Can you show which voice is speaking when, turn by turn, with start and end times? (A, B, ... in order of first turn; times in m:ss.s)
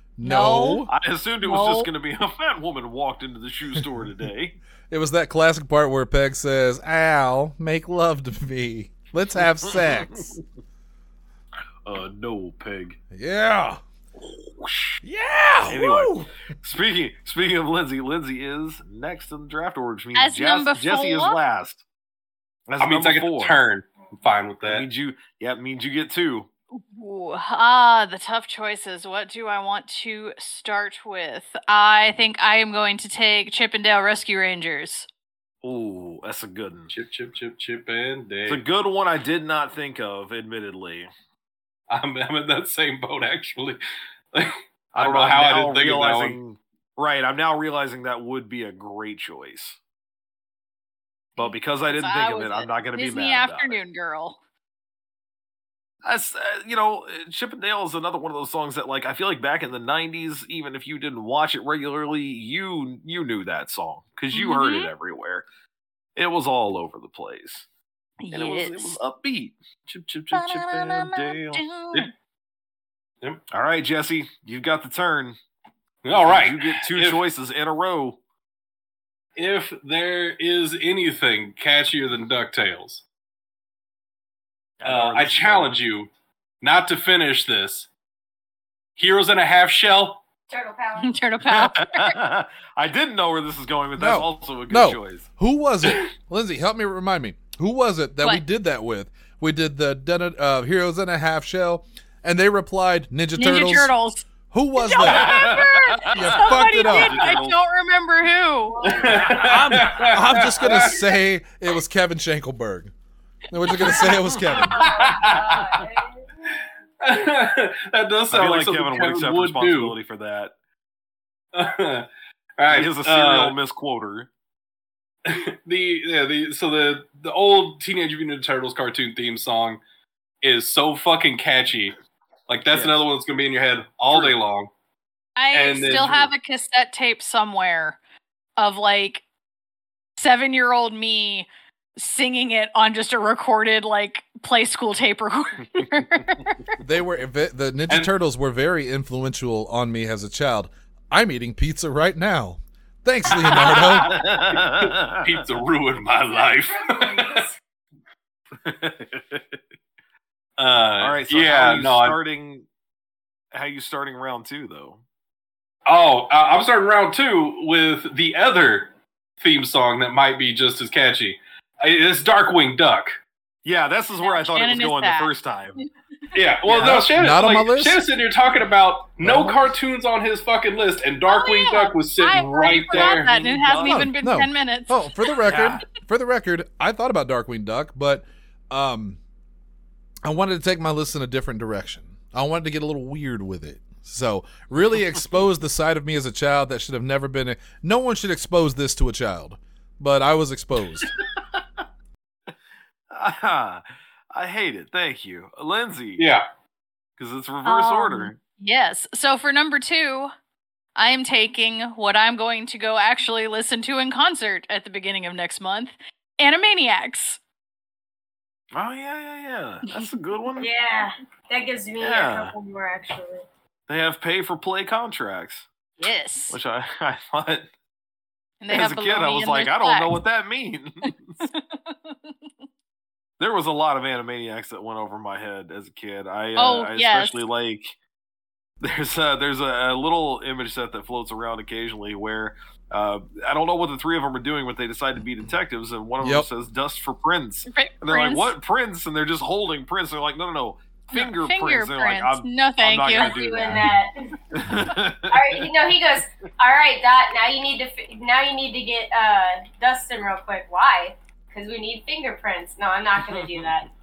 0:00.2-0:00.9 A
0:00.2-0:00.9 B
0:00.9-0:04.6 C
0:01.4-0:01.9 B
0:04.9-0:10.4 A
0:11.8-0:13.0 C
0:13.1-0:13.8 A
0:14.2-0:15.0 C
0:15.0-0:16.3 A
0:15.7-0:21.8 C
0:20.1-0:21.4 B
0:22.7-0:23.6 C
0:22.8-0:24.9 D
0:24.6-0:26.5 C
0:26.7-0:35.1 B
0:35.6-0:36.9 C
0:36.9-0:38.6 D
0:38.5-0:41.1 C
0:41.9-0:43.8 D
0:44.3-0:46.4 D
0:44.9-0:49.8 C
0:51.4-0:53.8 C
0:51.4-0:54.4 B
0:56.0-1:05.4 C
1:04.3-1:04.9 B
1:06.2-1:07.6 C
1:08.2-1:09.0 B
1:08.3-1:11.6 C
1:10.3-1:12.1 B
1:13.5-1:15.4 C
1:16.0-1:17.2 D
1:16.1-1:18.2 C
1:19.4-1:23.0 D
1:24.8-1:25.7 C
1:24.8-1:26.1 D
1:26.6-1:27.9 D
1:29.0-1:30.2 D
1:30.5-1:31.1 E
1:31.0-1:32.2 B
1:31.4-1:35.2 C
1:34.0-1:43.9 A
1:43.4-1:49.0 B
1:44.5-1:45.4 A
1:45.0-1:47.6 C
1:46.1-1:47.2 A
1:48.7-1:49.4 E
1:48.8-1:51.0 D
1:49.1-1:49.8 C
1:49.4-1:52.9 A
1:53.5-1:55.0 A
1:53.7-1:54.1 B
1:54.4-1:56.2 E
1:54.8-1:55.8 D
1:57.0-2:00.0 D
1:58.3-2:00.5 C
2:01.5-2:03.6 D
2:02.7-2:04.3 C
2:05.2-2:09.8 D
2:10.4-2:11.9 D
2:12.5-2:14.7 D
2:12.7-2:13.0 C
2:14.1-2:14.3 C
2:15.4-2:18.0 B
2:15.5-2:16.3 D
2:18.6-2:19.2 B
2:20.2-2:26.8 B
2:26.8-2:34.2 A
2:33.4-2:35.3 C
2:33.7-2:37.5 D
2:36.4-2:37.6 E
2:38.6-2:39.6 C
2:40.6-2:42.2 D
2:41.0-2:42.7 C
2:43.5-2:45.0 C
2:45.9-2:53.2 D
2:53.6-2:55.8 C
2:54.2-2:55.8 B
2:56.3-3:03.4 D
2:56.6-2:57.1 C
2:56.7-2:58.0 A
2:59.2-2:59.7 A
3:01.3-3:05.4 B
3:02.8-3:04.1 C
3:03.8-3:09.2 A
3:05.4-3:05.8 C
3:10.2-3:21.1 A
3:21.5-3:21.8 C
3:23.1-3:23.8 C
3:24.3-3:26.3 C
3:26.2-3:26.4 D
3:27.2-3:28.4 C
3:27.6-3:30.3 B
3:31.0-3:37.4 B
3:38.7-3:40.7 C
3:40.6-3:43.4 E
3:42.0-3:42.5 C
3:43.9-3:45.7 C
3:46.0-3:46.6 B
3:46.5-3:47.7 C
3:48.6-3:50.2 B
3:48.7-3:51.3 C
3:51.0-3:52.3 B
3:53.4-3:57.9 C
3:56.6-3:57.4 B
3:58.8-4:14.0 C
4:06.2-4:06.5 A
4:07.7-4:08.5 B
4:11.1-4:13.4 B
4:13.1-4:14.4 E
4:14.5-4:15.6 C
4:15.3-4:23.9 E